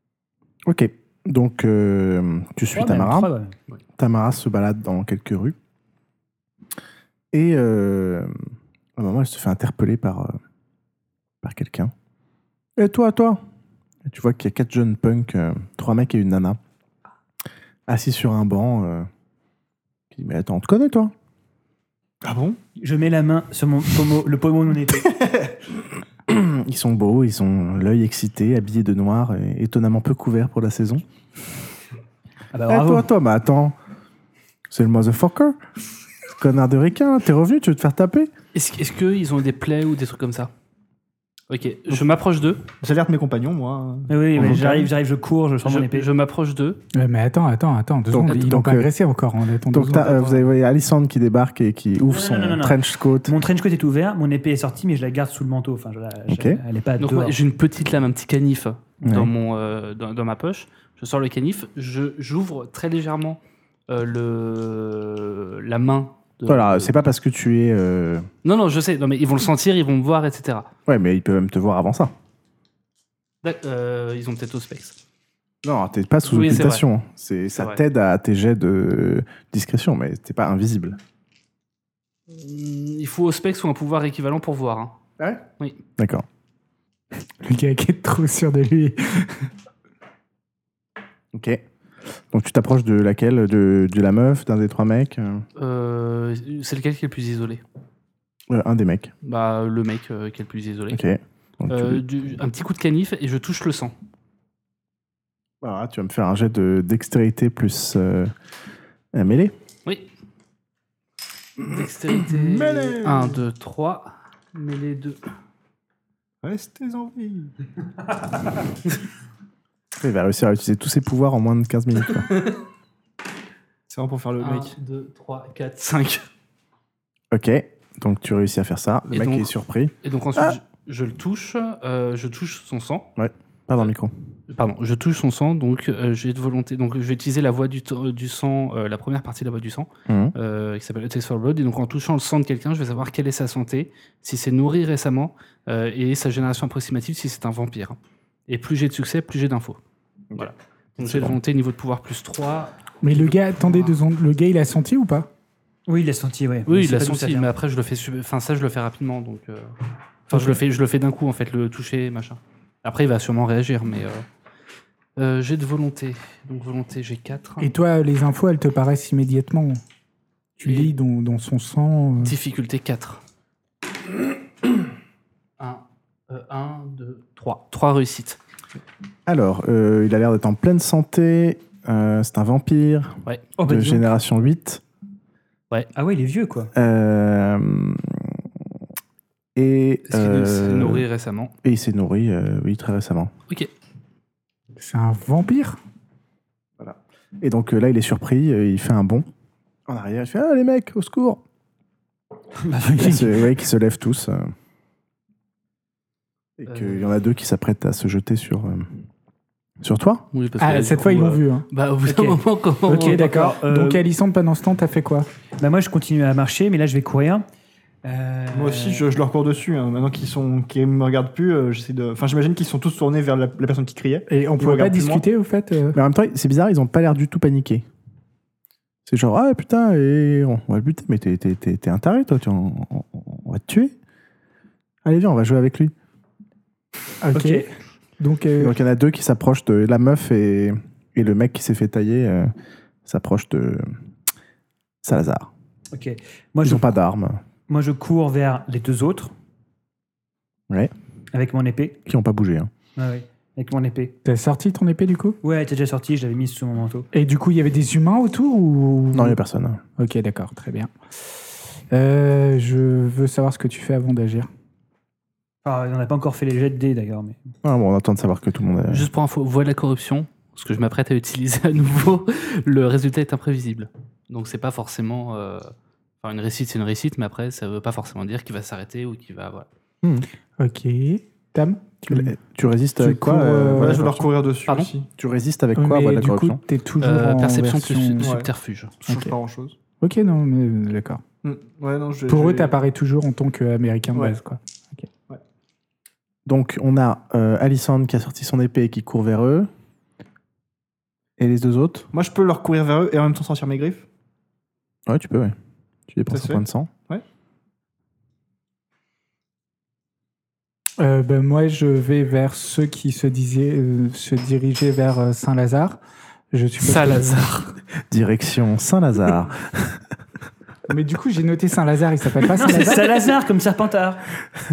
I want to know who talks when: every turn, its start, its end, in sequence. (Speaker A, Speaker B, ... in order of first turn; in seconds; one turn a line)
Speaker A: 0.7-3.3
Speaker B: 2.7-3.5
Speaker A: 4.0-5.5
Speaker A: 7.3-8.3
Speaker A: 8.9-10.3
Speaker A: 11.4-11.9
Speaker A: 12.8-13.4
Speaker A: 14.1-16.6
Speaker A: 17.9-19.1
Speaker A: 20.1-21.1
Speaker C: 22.2-22.6
Speaker B: 22.8-25.1
Speaker A: 26.3-31.0
Speaker B: 32.5-33.1
Speaker A: 32.7-33.8
Speaker A: 34.7-35.6
Speaker A: 36.3-38.3
Speaker D: 38.5-40.5
Speaker D: 41.5-42.6
Speaker C: 42.8-44.9
Speaker B: 44.1-46.1
Speaker D: 45.6-46.8
Speaker E: 46.9-50.1
Speaker A: 48.1-48.9
Speaker A: 49.7-53.3
Speaker D: 50.1-50.4
Speaker B: 52.0-57.4
Speaker A: 56.3-56.6
Speaker D: 57.0-67.0
Speaker A: 59.0-59.3
Speaker A: 66.5-68.3
Speaker D: 68.4-70.7
Speaker A: 70.9-72.1
Speaker D: 73.4-75.0
Speaker A: 75.6-81.0
Speaker D: 76.2-76.8
Speaker D: 82.3-85.0
Speaker A: 86.0-86.2
Speaker E: 87.4-89.5
Speaker A: 91.3-91.6
Speaker A: 92.3-95.5
Speaker D: 95.6-97.6
Speaker A: 98.5-99.1
Speaker D: 99.2-101.0
Speaker A: 100.9-102.0
Speaker D: 101.7-103.9
Speaker A: 105.6-108.3
Speaker A: 109.1-109.5
Speaker D: 111.6-115.2
Speaker C: 112.2-113.4
Speaker C: 116.4-117.5
Speaker A: 120.0-122.3
Speaker C: 123.9-124.8
Speaker D: 124.4-126.2
Speaker A: 127.3-130.6
Speaker D: 129.1-129.5
Speaker D: 130.0-133.1
Speaker A: 133.2-134.1
Speaker D: 134.5-148.0
Speaker A: 140.1-140.3
Speaker D: 148.5-149.8
Speaker A: 150.3-151.4
Speaker D: 150.3-153.9
Speaker E: 153.0-155.3
Speaker B: 155.9-157.5
Speaker D: 156.7-159.7
Speaker D: 160.3-164.2
Speaker E: 160.3-160.6
Speaker D: 165.2-167.7
Speaker E: 167.6-169.8
Speaker E: 170.6-172.3
Speaker D: 170.6-170.9
Speaker D: 172.2-173.2
Speaker D: 175.6-178.4
Speaker A: 179.3-184.8
Speaker B: 183.6-184.1
Speaker B: 185.9-186.7
Speaker A: 186.7-188.4
Speaker A: 189.6-191.1
Speaker D: 190.1-191.5
Speaker A: 191.6-193.3
Speaker E: 194.7-195.8
Speaker A: 196.8-199.3
Speaker A: 199.9-201.4
Speaker B: 202.6-203.5
Speaker A: 203.0-204.5
Speaker A: 206.6-208.9
Speaker D: 206.7-207.1
Speaker A: 209.8-210.2
Speaker D: 210.3-213.3
Speaker E: 210.6-212.3
Speaker B: 212.9-214.0
Speaker E: 212.9-215.3
Speaker B: 215.6-217.4
Speaker B: 218.0-219.1
Speaker C: 218.5-225.2
Speaker E: 224.3-226.0
Speaker A: 225.9-227.8
Speaker A: 229.1-233.9
Speaker A: 235.0-235.9
Speaker E: 237.2-238.8
Speaker B: 237.3-237.7
Speaker A: 238.6-242.5
Speaker A: 243.0-243.9
Speaker A: 245.0-245.5
Speaker B: 245.9-246.9
Speaker A: 246.6-247.4
Speaker B: 247.7-249.3
Speaker B: 251.3-252.0
Speaker A: 252.1-252.7
Speaker B: 253.0-254.1
Speaker E: 254.2-255.4
Speaker B: 255.4-257.1
Speaker E: 257.1-259.4
Speaker A: 259.1-259.8
Speaker E: 260.0-260.9
Speaker E: 261.9-264.5
Speaker B: 265.6-267.4
Speaker A: 267.6-269.1
Speaker D: 268.9-279.7
Speaker E: 280.6-282.3
Speaker A: 282.1-284.3
Speaker E: 283.0-284.1
Speaker C: 283.7-285.1
Speaker A: 285.1-286.6
Speaker E: 285.8-288.3
Speaker D: 287.0-289.0
Speaker C: 288.2-288.5
Speaker C: 289.0-289.8
Speaker E: 289.1-289.3
Speaker E: 290.0-291.2
Speaker C: 291.4-292.8
Speaker E: 292.3-295.1
Speaker A: 296.4-299.7
Speaker A: 301.4-302.1
Speaker C: 302.1-304.1
Speaker A: 305.1-305.5
Speaker A: 306.1-306.9
Speaker C: 306.3-307.2
Speaker E: 311.0-316.0
Speaker E: 316.5-317.4
Speaker D: 316.8-317.7
Speaker A: 318.1-320.0
Speaker E: 320.9-323.3
Speaker B: 322.5-324.2